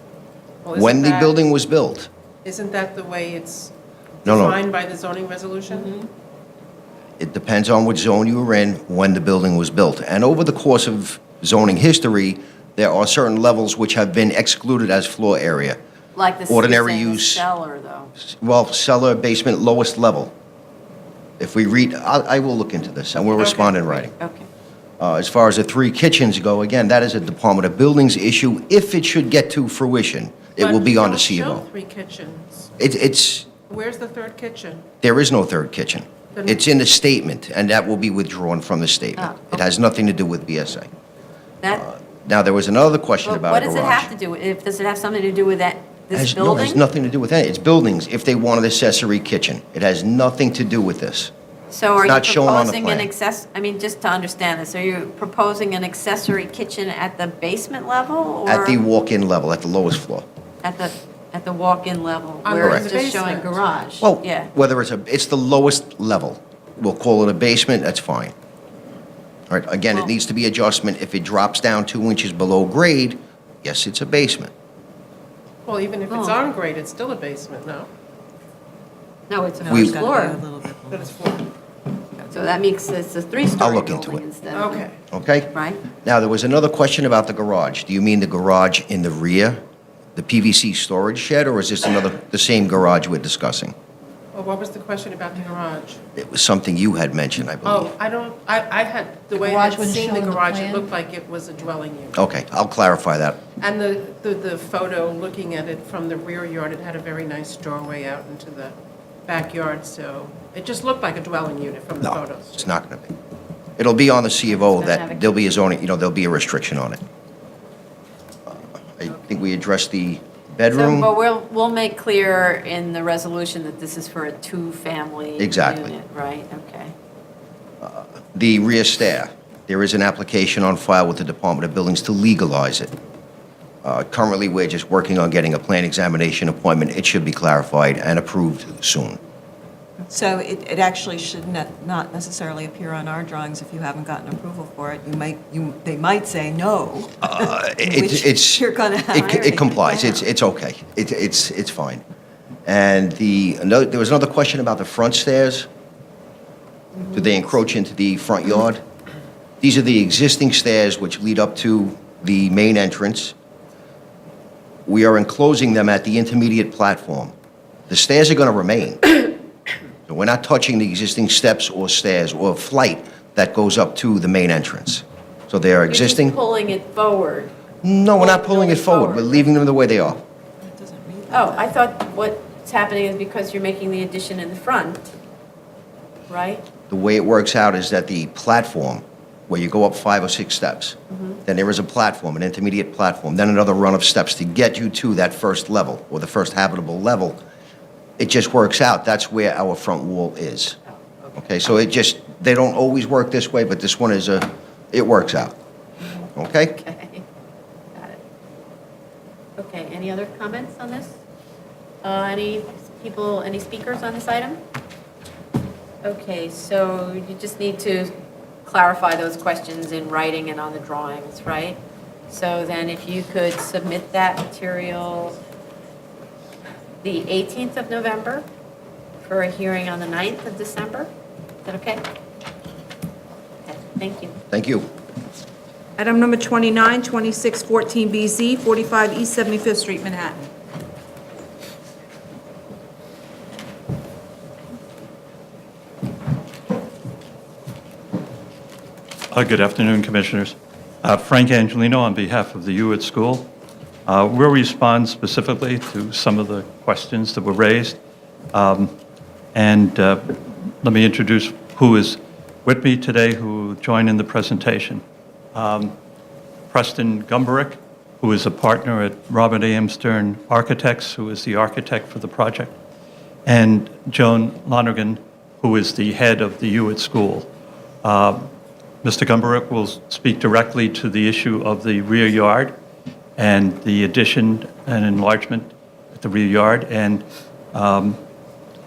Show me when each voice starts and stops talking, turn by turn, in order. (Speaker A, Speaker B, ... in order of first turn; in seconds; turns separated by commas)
Speaker A: 0.6-1.4, Speaker B: 0.7-2.1, Speaker A: 2.4-5.9, Speaker B: 4.3-4.6, Speaker C: 5.7-6.0, Speaker B: 7.2-15.8, Speaker C: 16.1-18.1, Speaker B: 16.5-17.4, Speaker B: 18.3-20.3, Speaker B: 21.4-24.1, Speaker A: 23.4-23.8, Speaker C: 24.1-24.5, Speaker B: 25.0-31.6, Speaker A: 30.6-32.7, Speaker B: 32.8-33.5, Speaker A: 33.5-34.9, Speaker B: 35.0-40.9, Speaker A: 36.3-36.6, Speaker C: 39.2-39.7, Speaker B: 41.7-44.1, Speaker C: 43.2-46.8, Speaker B: 46.1-51.3, Speaker C: 51.7-58.8, Speaker B: 52.0-53.1, Speaker B: 58.5-60.3, Speaker C: 60.6-64.5, Speaker A: 62.4-63.7, Speaker B: 62.6-62.9, Speaker B: 64.0-68.3, Speaker B: 69.5-74.5, Speaker A: 75.6-77.9, Speaker C: 76.1-76.4, Speaker C: 79.3-80.4, Speaker D: 79.6-81.2, Speaker B: 79.7-80.0, Speaker A: 80.9-81.4, Speaker C: 82.3-84.9, Speaker B: 83.6-84.2, Speaker A: 84.5-85.0, Speaker B: 85.1-85.5, Speaker C: 85.5-85.8, Speaker B: 86.0-89.6, Speaker B: 90.2-93.7, Speaker A: 94.3-96.0, Speaker B: 96.2-97.9, Speaker A: 97.6-102.2, Speaker E: 99.3-100.9, Speaker B: 102.2-103.4, Speaker A: 103.6-108.8, Speaker A: 109.3-112.7, Speaker B: 112.1-113.1, Speaker B: 113.8-117.0, Speaker C: 114.5-115.5, Speaker B: 118.5-121.1, Speaker C: 120.7-126.9, Speaker B: 125.4-125.9, Speaker B: 127.8-132.9, Speaker B: 133.8-139.2, Speaker D: 140.1-150.2, Speaker B: 147.3-152.0, Speaker B: 152.7-155.7, Speaker C: 156.9-157.3, Speaker B: 157.1-158.8, Speaker B: 159.6-163.3, Speaker B: 164.9-167.3, Speaker B: 167.9-169.1, Speaker B: 170.1-176.4, Speaker C: 175.9-177.5, Speaker B: 177.8-180.2, Speaker C: 178.2-179.5, Speaker D: 180.6-181.7, Speaker C: 181.3-185.1, Speaker C: 186.3-186.7, Speaker B: 186.9-197.4, Speaker C: 191.1-191.4, Speaker B: 198.2-200.8, Speaker B: 201.4-205.6, Speaker B: 206.4-206.8, Speaker C: 206.7-207.2, Speaker C: 207.9-208.2, Speaker C: 209.6-211.2, Speaker C: 212.0-214.6, Speaker C: 216.0-218.1, Speaker C: 218.6-225.4, Speaker C: 227.0-228.4, Speaker C: 229.2-231.1, Speaker C: 231.7-232.0, Speaker C: 233.7-234.3, Speaker B: 234.5-234.9, Speaker E: 236.0-240.5, Speaker F: 249.3-253.5, Speaker F: 254.1-258.0, Speaker F: 258.5-258.9, Speaker F: 259.5-265.0, Speaker F: 265.6-265.9, Speaker F: 266.7-272.7, Speaker F: 273.5-277.5, Speaker F: 278.0-278.5, Speaker F: 279.0-282.8, Speaker F: 283.4-288.2